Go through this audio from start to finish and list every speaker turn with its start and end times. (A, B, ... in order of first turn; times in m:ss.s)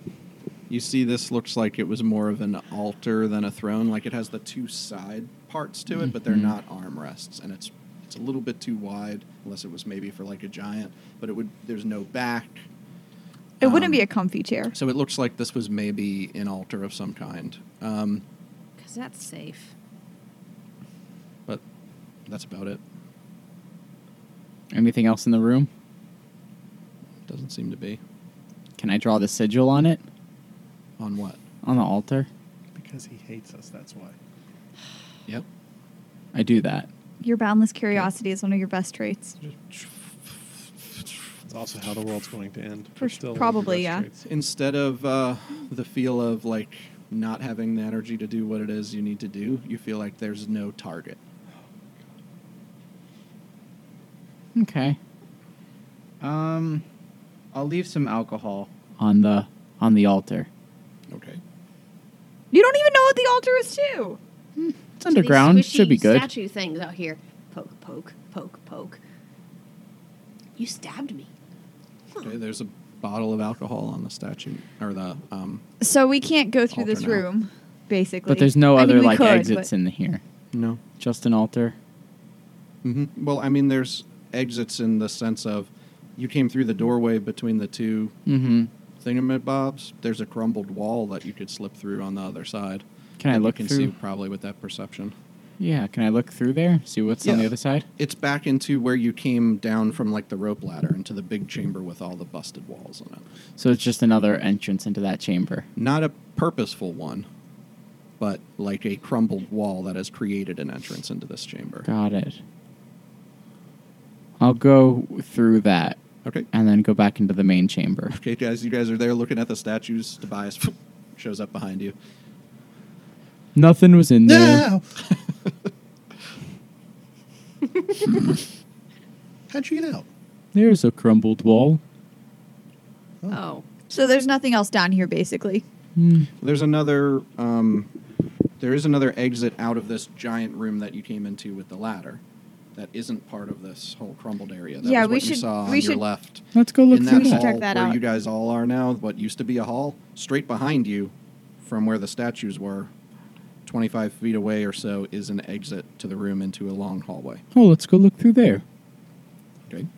0:00.7-0:12.6 A
0:06.1-0:06.5 B
0:13.6-0:14.0 A
0:13.6-0:14.7 C
0:14.7-0:18.2 A
0:18.8-0:19.7 D
0:22.3-0:22.8 A
0:24.7-0:25.7 B
0:27.3-0:28.0 A
0:28.8-0:30.0 B
0:31.0-0:31.4 A
0:31.6-0:32.3 B
0:32.7-0:34.1 E
0:36.3-0:36.9 B
0:37.2-0:39.4 C
0:39.4-0:39.9 A
0:41.5-0:44.2 E
0:43.0-0:44.0 C
0:44.2-0:51.2 A
0:54.5-0:55.0 B
0:56.2-0:56.8 B
0:57.5-1:00.5 B
1:01.1-1:01.4 A
1:02.5-1:04.2 C
1:04.6-1:06.3 B
1:05.0-1:09.0 D
1:10.6-1:11.3 D
1:12.2-1:15.6 A
1:15.8-1:19.7 C
1:16.7-1:17.2 A
1:18.3-1:20.2 B
1:20.5-1:20.8 A
1:21.0-1:21.8 B
1:22.8-1:28.1 A
1:28.2-1:28.7 B
1:29.0-1:35.1 A
1:33.2-1:33.9 B
1:35.6-1:37.9 B
1:37.2-1:43.2 A
1:43.6-1:45.7 B
1:45.8-1:47.3 A
1:48.2-1:51.9 A
1:51.8-1:52.4 B
1:54.4-1:56.0 B
1:56.2-1:56.5 A
1:56.5-1:58.1 B
1:58.1-2:02.0 A
2:03.5-2:04.7 B
2:04.2-2:05.0 E
2:09.5-2:10.0 E
2:10.5-2:11.8 B
2:13.3-2:13.6 D
2:13.9-2:15.6 C
2:16.0-2:16.3 B
2:16.4-2:17.9 A
2:18.6-2:22.2 A
2:22.8-2:32.9 A
2:24.8-2:26.0 C
2:26.5-2:27.5 B
2:27.0-2:28.0 C
2:33.6-2:37.4 A
2:37.5-2:38.6 B